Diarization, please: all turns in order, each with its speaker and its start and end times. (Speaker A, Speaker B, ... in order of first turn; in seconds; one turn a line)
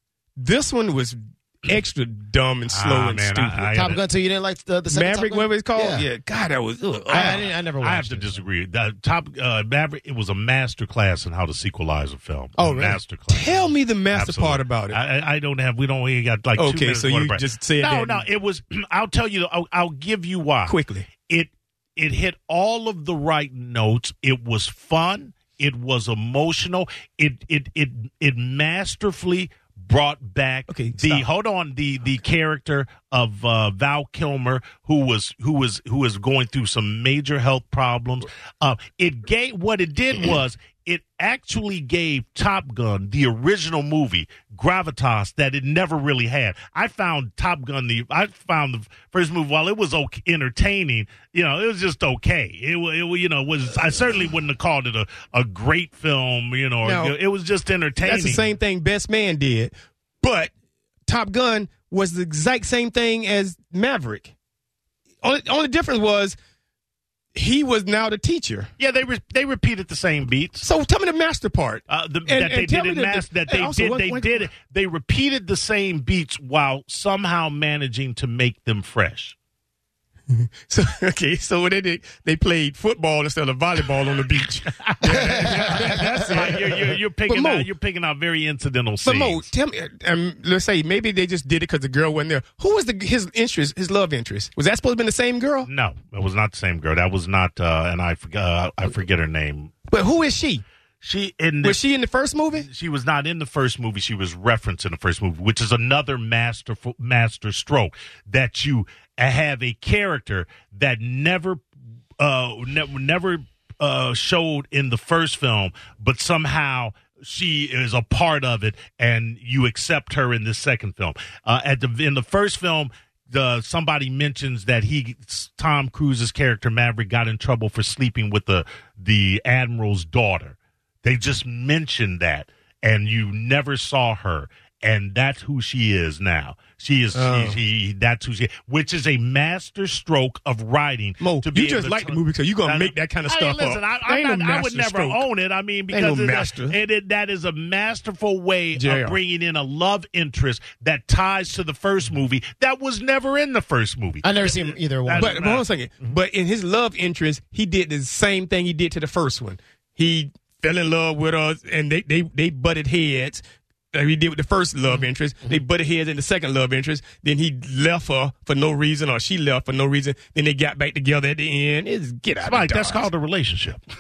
Speaker A: 0.4-3.8
Speaker B: 2.7-4.0
Speaker C: 3.7-6.1
Speaker A: 4.9-7.5
Speaker C: 7.1-8.4
Speaker B: 7.1-58.5
Speaker C: 12.6-13.0
Speaker A: 13.3-15.0
Speaker A: 16.6-18.2
Speaker A: 20.7-21.1
Speaker A: 30.7-31.3
Speaker A: 56.8-57.2
Speaker A: 58.0-60.5
Speaker A: 61.1-64.3
Speaker A: 65.2-66.4
Speaker A: 67.3-68.7
Speaker B: 68.8-70.7
Speaker A: 70.6-74.5
Speaker B: 71.9-79.4
Speaker A: 80.3-87.7
Speaker B: 85.0-89.5
Speaker C: 85.0-86.6
Speaker A: 89.0-95.7
Speaker B: 95.7-99.7
Speaker A: 99.9-100.6
Speaker B: 101.0-101.8
Speaker A: 101.6-102.7
Speaker B: 102.5-111.6
Speaker B: 112.2-155.7
Speaker A: 137.1-137.6
Speaker A: 141.2-145.2
Speaker A: 145.9-146.8
Speaker A: 148.8-149.2
Speaker C: 154.2-155.4
Speaker A: 155.2-173.1
Speaker B: 172.4-173.8